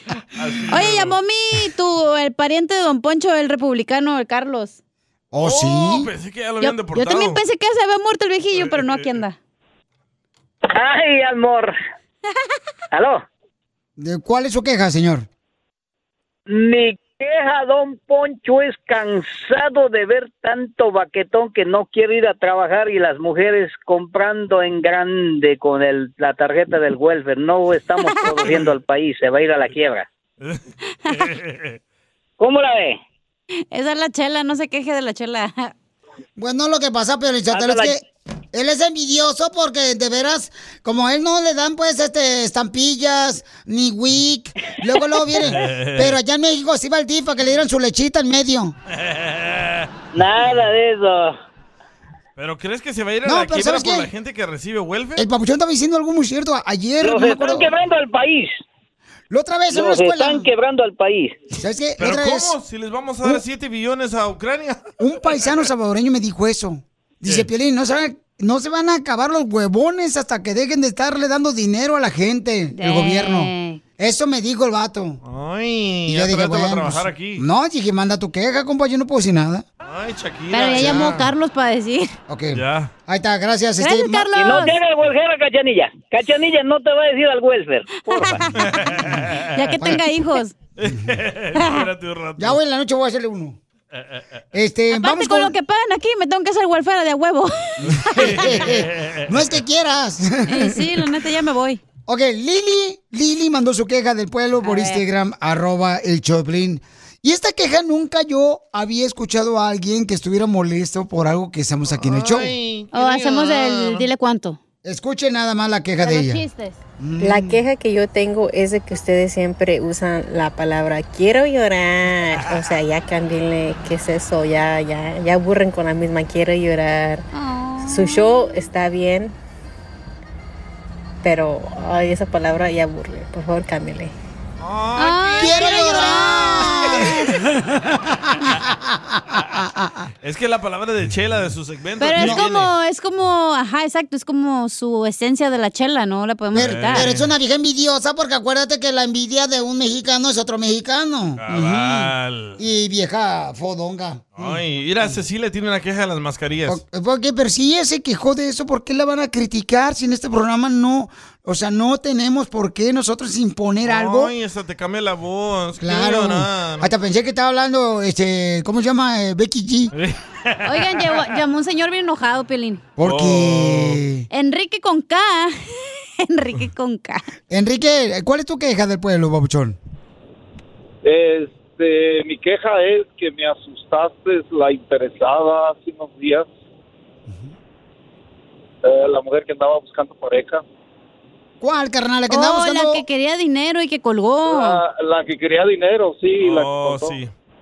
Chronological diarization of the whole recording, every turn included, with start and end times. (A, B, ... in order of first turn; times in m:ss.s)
0:00.4-0:01.2 A
0:00.7-0:04.8 B
0:05.3-0:06.1 C
0:05.4-0:07.4 A
0:06.6-0:09.4 B
0:08.6-0:09.1 A
0:10.7-0:11.7 D
0:12.9-0:13.2 D
0:14.0-0:15.3 C
0:16.5-0:30.0 D
0:30.4-0:31.8 A
0:32.4-0:33.0 D
0:33.7-0:35.7 B
0:36.4-0:38.0 C
0:37.5-0:38.0 D
0:38.5-0:48.8 C
0:45.5-0:46.2 A
0:48.9-0:49.9 A
0:50.1-0:51.4 D
0:52.4-0:55.2 A
0:53.2-0:54.1 C
0:55.2-0:57.7 C
0:57.0-0:58.6 D
0:59.3-1:00.5 C
0:59.7-1:01.4 D
1:01.5-1:02.5 C
1:02.0-1:04.9 A
1:05.0-1:15.2 C
1:12.7-1:13.8 B
1:15.2-1:17.4 A
1:16.1-1:19.6 C
1:19.8-1:21.2 A
1:20.5-1:22.1 B
1:20.8-1:21.3 C
1:22.3-1:24.3 C
1:22.5-1:22.9 A
1:23.8-1:24.8 B
1:24.4-1:27.9 D
1:28.0-1:29.0 B
1:28.6-1:29.5 A
1:29.5-1:30.5 B
1:29.8-1:30.0 C
1:30.8-1:32.6 A
1:31.6-1:31.8 B
1:32.4-1:33.6 C
1:34.5-1:35.6 C
1:34.9-1:38.6 B
1:37.8-1:41.0 C
1:38.0-1:39.5 A
1:40.5-1:41.8 B
1:42.1-1:52.5 C
1:44.6-1:45.0 B
1:51.9-1:54.0 A
1:52.9-1:54.6 B
1:54.8-1:56.4 C
1:56.0-1:56.8 B
1:57.0-1:57.6 C
1:57.2-2:01.7 E
2:02.5-2:07.2 E
2:07.3-2:08.4 B
2:07.9-2:09.3 E
2:11.2-2:14.1 E
2:14.6-2:16.2 A
2:15.0-2:17.3 B
2:15.4-2:17.5 C
2:18.4-2:20.1 C
2:20.2-2:22.7 A
2:22.0-2:27.1 B
2:22.2-2:22.4 C
2:26.5-2:27.3 A
2:26.5-2:35.2 C
2:31.4-2:32.6 A
2:34.4-2:36.8 A
2:36.7-2:44.3 C
2:43.8-2:46.9 A
2:45.8-2:49.9 C
2:50.0-2:51.2 A
2:50.6-2:52.8 B
2:53.0-2:54.3 C
2:53.0-2:54.0 A
2:54.3-2:55.6 B
2:56.2-2:57.2 B
2:57.5-2:59.8 C
3:01.0-3:06.5 F
3:08.8-3:10.6 F
3:11.6-3:13.0 C
3:12.3-3:14.8 B
3:14.5-3:17.2 F
3:16.4-3:17.3 A